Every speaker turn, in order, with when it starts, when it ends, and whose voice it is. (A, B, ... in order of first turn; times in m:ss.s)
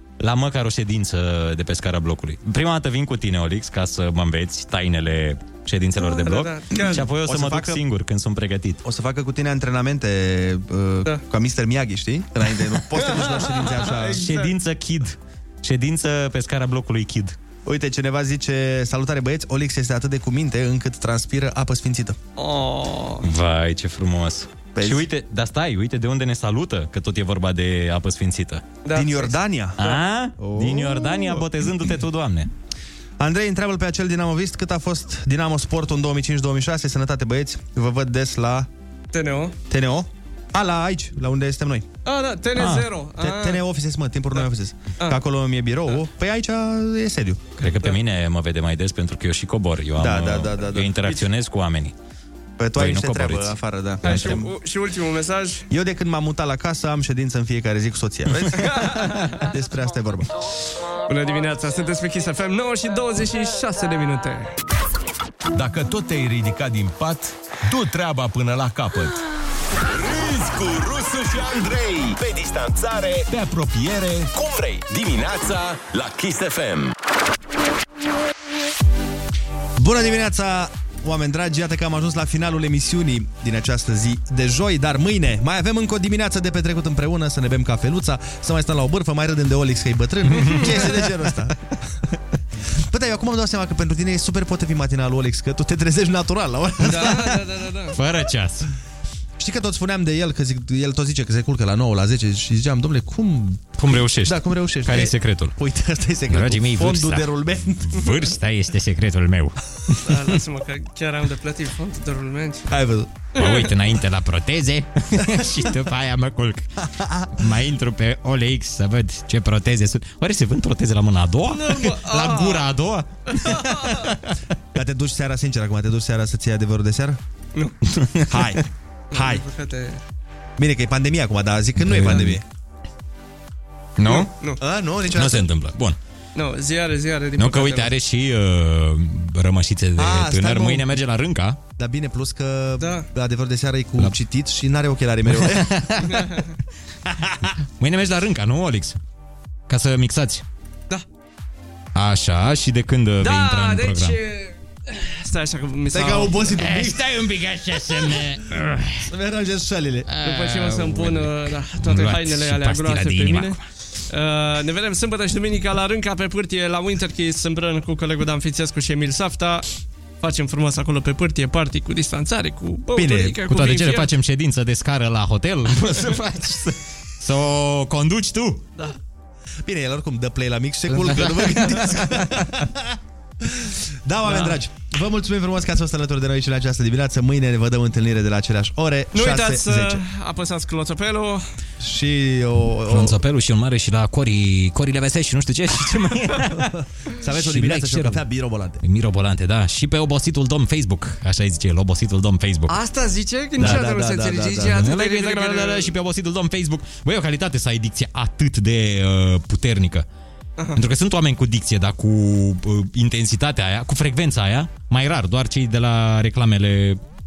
0:00.2-0:08.8 A
0:06.0-0:07.0 B
0:06.8-0:07.8 C
0:08.8-0:14.3 C
0:13.0-0:14.5 B
0:14.0-0:17.4 A
0:17.6-0:22.2 C
0:22.4-0:23.3 B
0:23.2-0:28.7 A
0:24.7-0:25.1 C
0:28.8-0:29.4 B
0:28.9-0:31.4 C
0:29.8-0:32.5 A
0:33.2-0:38.7 C
0:39.1-0:39.6 B
0:39.7-0:41.9 C
0:42.0-0:43.6 B
0:42.6-0:42.9 A
0:43.2-0:47.5 C
0:47.6-0:51.9 A
0:50.0-0:51.0 C
0:52.6-0:54.5 C
0:52.8-0:54.4 A
0:54.0-0:55.6 B
0:55.7-1:00.3 C
0:58.6-0:59.4 B
1:01.1-1:04.5 B
1:05.5-1:09.2 D
1:09.8-1:13.3 E
1:13.3-1:14.3 D
1:14.3-1:16.9 E
1:19.8-1:31.6 C
1:30.3-1:30.7 A
1:30.5-1:31.0 B
1:32.8-1:37.4 C
1:36.8-1:38.0 B
1:37.9-1:38.7 A
1:39.4-1:48.1 C
1:43.8-1:45.6 A
1:46.3-1:47.3 A
1:47.8-1:50.0 A
1:50.0-1:52.7 B
1:52.7-1:53.2 C
1:53.4-1:53.7 B
1:53.4-1:56.7 A
1:56.9-1:57.3 C
1:57.3-2:04.4 A
2:01.5-2:02.7 B
2:03.3-2:04.1 B
2:04.7-2:07.2 C
2:07.8-2:08.6 A
2:08.3-2:09.4 C
2:09.1-2:10.0 B
2:10.6-2:12.4 C
2:11.8-2:12.4 A
2:14.0-2:14.3 A
2:14.0-2:14.6 B
2:14.6-2:15.4 C
2:15.1-2:16.0 A
2:16.4-2:17.9 B
2:17.4-2:21.6 A
2:20.0-2:20.9 C
2:21.8-2:25.8 C
2:22.8-2:23.1 B
2:25.4-2:26.2 A
2:26.1-2:26.5 B
2:27.4-2:29.0 A
2:29.7-2:30.4 A
2:31.9-2:34.2 A
2:33.2-2:36.6 B
2:35.9-2:37.0 C
2:36.5-2:39.1 A
2:39.1-2:40.1 C
2:40.1-2:43.6 A
2:40.2-2:43.6 B
2:44.1-2:49.6 B
2:50.2-2:54.1 B
2:52.9-2:53.4 C
2:53.4-2:58.6 A
2:59.6-3:10.0 C
3:01.0-3:02.6 A
3:09.1-3:11.4 B
3:11.8-3:13.2 C
3:12.9-3:16.7 A
3:17.2-3:18.8 C
3:17.3-3:18.2 A
3:18.8-3:22.7 A
3:22.7-3:25.9 B
3:23.6-3:24.9 C
3:23.6-3:24.0 A
3:24.6-3:30.0 A
3:30.7-3:37.0 A